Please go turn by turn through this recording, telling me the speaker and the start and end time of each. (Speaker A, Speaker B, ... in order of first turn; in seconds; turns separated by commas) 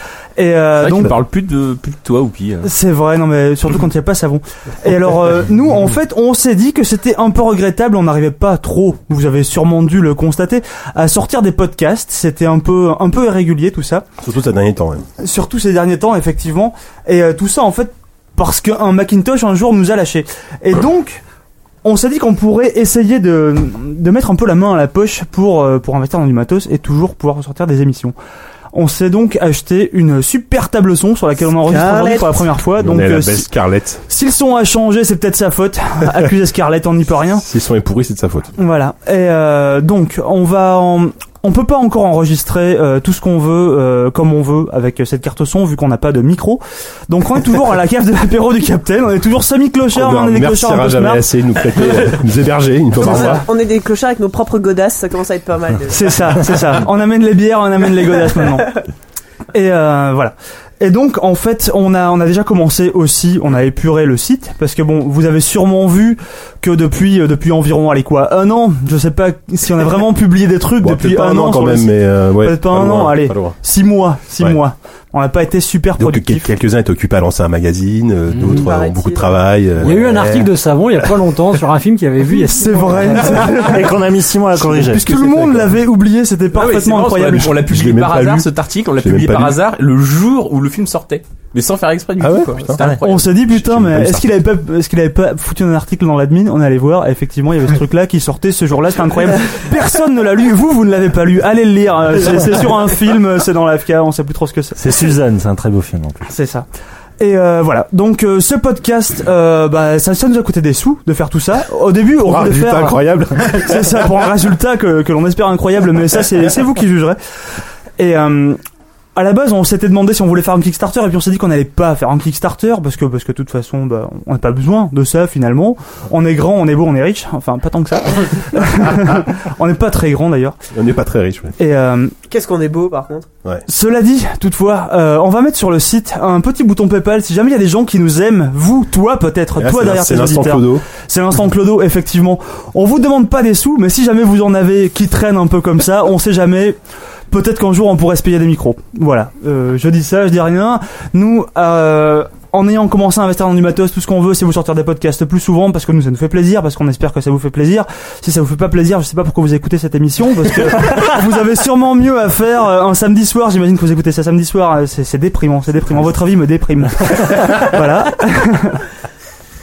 Speaker A: 0.4-1.1, Speaker B: 0.8-2.7, Speaker A: 2.6-14.0, Speaker C: 14.2-15.1, Speaker A: 15.2-21.2, Speaker A: 21.8-28.1, Speaker A: 28.7-33.5, Speaker D: 31.6-32.4, Speaker C: 32.8-34.0, Speaker A: 34.0-37.4, Speaker C: 37.4-38.5, Speaker A: 38.6-51.2, Speaker C: 49.9-53.5, Speaker D: 53.0-56.6, Speaker A: 53.1-53.4, Speaker A: 55.9-58.7, Speaker A: 59.5-76.5, Speaker C: 70.8-73.6, Speaker C: 76.0-81.2, Speaker E: 78.3-78.7, Speaker D: 78.5-79.3, Speaker E: 79.8-83.4, Speaker A: 82.3-83.9, Speaker F: 83.4-85.0, Speaker A: 84.7-87.5, Speaker C: 84.9-85.7, Speaker B: 86.5-93.3, Speaker C: 87.5-89.6, Speaker C: 92.2-94.2, Speaker A: 93.0-104.8, Speaker F: 104.8-106.2, Speaker A: 106.3-106.7, Speaker A: 107.2-112.9, Speaker C: 112.2-114.2, Speaker A: 113.6-117.2, Speaker A: 118.0-118.6, Speaker A: 119.2-130.6, Speaker C: 130.7-131.6, Speaker A: 131.6-132.1, Speaker D: 132.3-133.2, Speaker A: 133.7-146.8, Speaker C: 139.6-140.8, Speaker A: 147.3-168.8